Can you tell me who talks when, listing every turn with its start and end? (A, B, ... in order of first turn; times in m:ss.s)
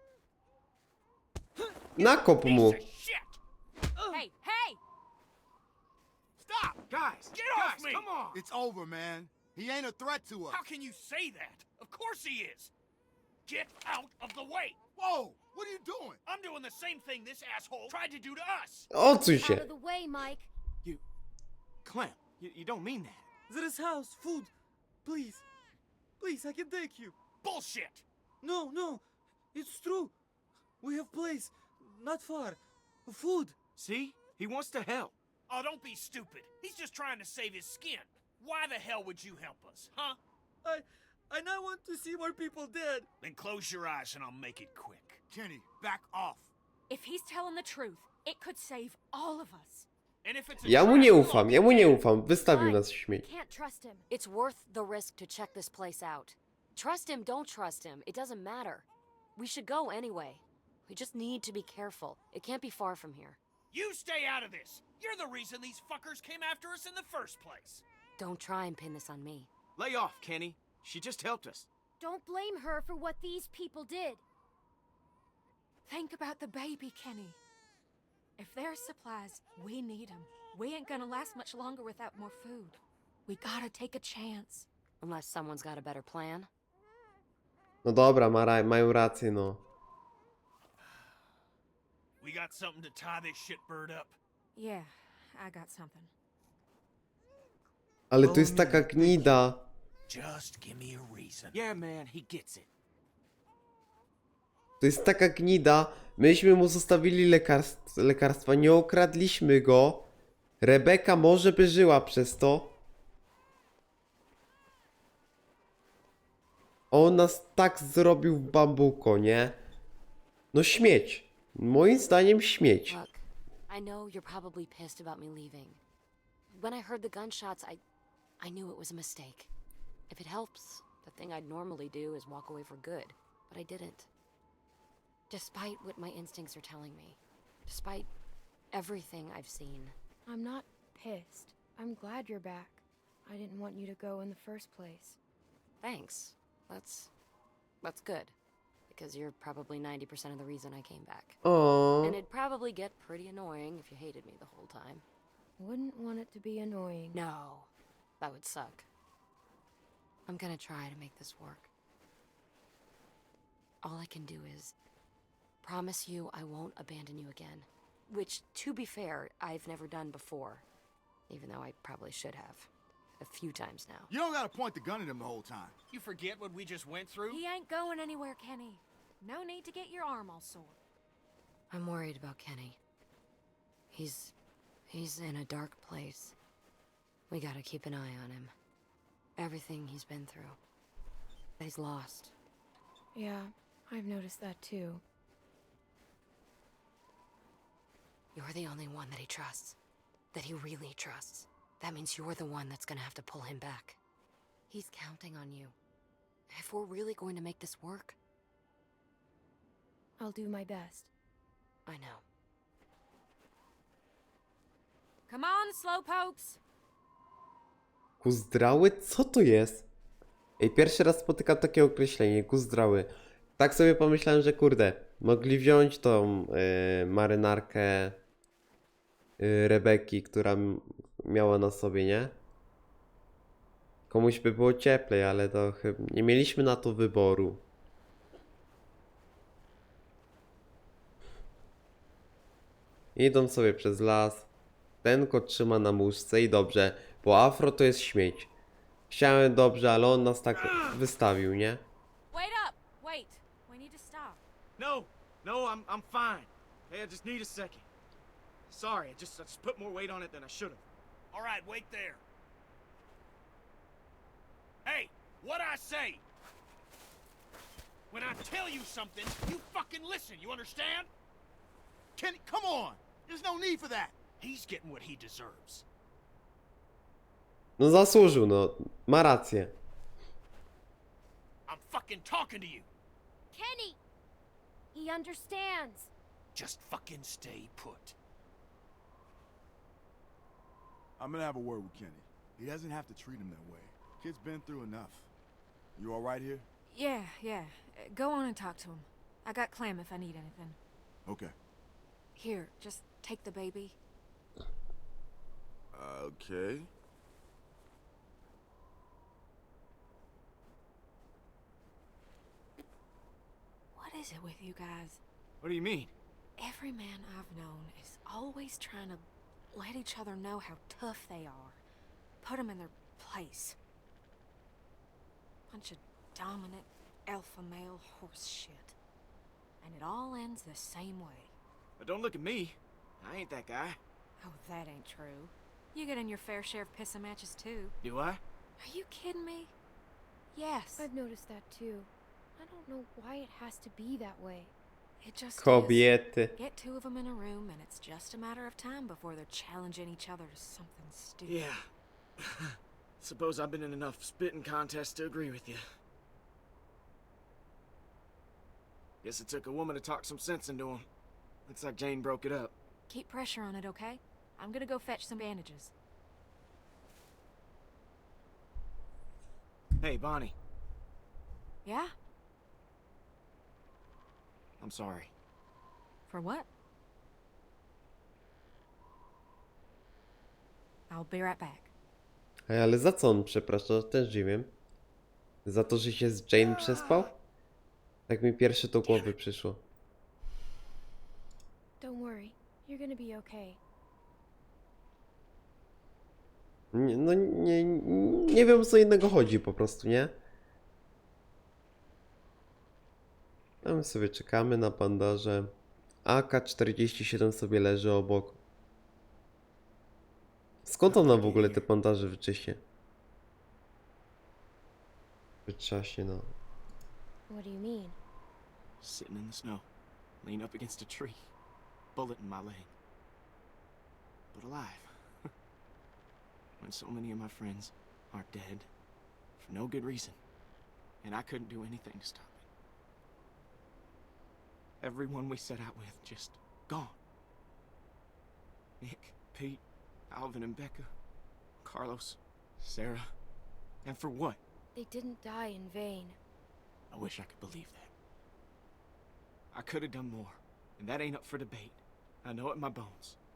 0:02.0-0:02.8 A
0:02.0-0:03.4 B
0:04.1-0:04.8 C
0:06.6-0:08.4 D
0:07.3-0:08.1 B
0:08.3-0:10.6 E
0:10.5-0:12.7 B
0:13.5-0:14.8 B
0:15.0-0:16.2 E
0:16.2-0:18.9 B
0:18.9-0:19.7 A
0:19.3-0:20.5 F
0:21.8-0:23.2 D
0:23.5-0:24.5 G
0:25.0-0:25.4 G
0:26.2-0:27.2 G
0:27.4-0:28.0 B
0:28.4-0:29.0 G
0:29.5-0:30.1 G
0:30.8-0:33.6 G
0:33.8-0:35.1 D
0:35.5-0:40.2 B
0:40.6-0:43.1 G
0:43.2-0:45.2 B
0:45.3-0:46.5 E
0:46.9-0:49.9 C
0:50.2-0:52.0 B
0:50.6-0:53.2 A
0:52.3-0:54.0 F
0:54.1-1:03.4 H
1:03.7-1:07.8 B
1:08.2-1:09.5 H
1:09.8-1:11.7 D
1:12.0-1:14.2 F
1:15.8-1:17.4 C
1:18.4-1:24.7 C
1:25.0-1:26.5 H
1:27.8-1:29.6 A
1:32.2-1:34.2 B
1:34.5-1:36.1 C
1:38.1-1:39.7 A
1:38.2-1:39.2 D
1:40.1-1:41.5 B
1:41.5-1:42.6 D
1:44.8-1:52.8 A
1:56.9-1:59.6 A
2:00.5-2:03.0 A
2:02.9-2:05.8 H
2:06.5-2:07.8 H
2:08.4-2:09.5 H
2:10.1-2:14.1 H
2:15.3-2:18.1 H
2:18.7-2:19.9 H
2:20.2-2:25.2 F
2:25.8-2:27.1 H
2:27.8-2:28.3 H
2:28.9-2:31.4 H
2:31.4-2:32.2 A
2:32.0-2:35.0 H
2:35.6-2:37.2 F
2:37.1-2:38.8 H
2:40.3-2:41.7 H
2:43.8-2:44.7 H
2:45.6-2:50.6 H
2:51.3-2:54.1 H
2:54.1-2:55.7 E
2:55.9-2:57.4 B
2:57.3-3:00.8 C
3:01.7-3:02.8 H
3:03.9-3:04.3 H
3:04.9-3:06.3 H
3:07.3-3:08.5 H
3:09.4-3:10.6 H
3:11.6-3:12.3 H
3:13.1-3:15.0 F
3:18.3-3:19.8 H
3:20.3-3:24.0 H
3:24.7-3:25.7 H
3:26.5-3:28.2 H
3:30.2-3:31.1 F
3:31.8-3:32.2 H
3:35.3-3:36.6 C
3:38.2-3:39.9 A
3:40.6-3:48.2 A
3:49.4-3:52.4 A
3:54.1-3:57.6 A
4:03.2-4:04.5 A
4:05.0-4:08.5 A
4:09.1-4:11.8 A
4:12.3-4:14.4 C
4:14.8-4:17.8 D
4:18.7-4:20.8 D
4:21.3-4:22.2 B
4:24.8-4:26.2 B
4:28.1-4:31.1 B
4:32.2-4:34.1 E
4:34.4-4:35.8 B
4:37.8-4:39.7 A
4:41.7-4:42.9 B
4:43.5-4:44.0 F
4:44.9-4:46.1 F
4:46.5-4:48.2 B
4:51.2-4:55.3 E
4:56.0-4:56.6 E
4:56.9-5:00.8 C
5:01.2-5:01.5 E
5:02.3-5:04.0 C
5:05.9-5:06.9 E
5:13.9-5:15.2 C
5:15.6-5:16.1 D
5:16.6-5:21.8 C
5:22.4-5:23.8 C
5:25.7-5:28.9 C
5:29.8-5:31.5 C
5:32.0-5:34.0 D
5:34.4-5:37.9 C
5:38.0-5:38.4 D
5:38.8-5:39.7 C
5:40.5-5:41.1 C
5:41.0-5:44.7 F
5:45.2-5:51.6 C
5:45.6-5:46.5 A
5:51.4-5:51.8 D
5:53.2-5:55.8 D
5:59.2-6:01.0 D
6:01.7-6:02.7 D
6:03.1-6:05.9 C
6:10.0-6:10.5 D
6:11.8-6:12.1 C
6:14.8-6:15.3 D
6:16.3-6:16.7 C
6:21.1-6:21.9 C
6:22.7-6:24.7 A
6:25.6-6:27.3 A
6:28.3-6:29.8 A
6:32.0-6:33.8 F
6:36.9-6:40.3 A
6:43.8-6:45.7 A
6:46.2-6:48.6 A
6:50.8-6:52.8 A
6:51.0-6:51.8 D
6:55.7-6:56.5 A
6:57.5-6:58.2 F
6:59.0-6:59.8 D
7:00.4-7:01.5 D
7:02.2-7:02.9 D
7:04.5-7:05.1 D
7:06.8-7:08.9 D
7:09.6-7:10.4 D
7:11.2-7:12.6 D
7:15.0-7:17.2 D
7:19.0-7:21.1 D
7:21.8-7:23.2 D
7:24.0-7:24.6 D
7:24.9-7:26.4 F
7:27.1-7:28.1 D
7:29.7-7:33.4 D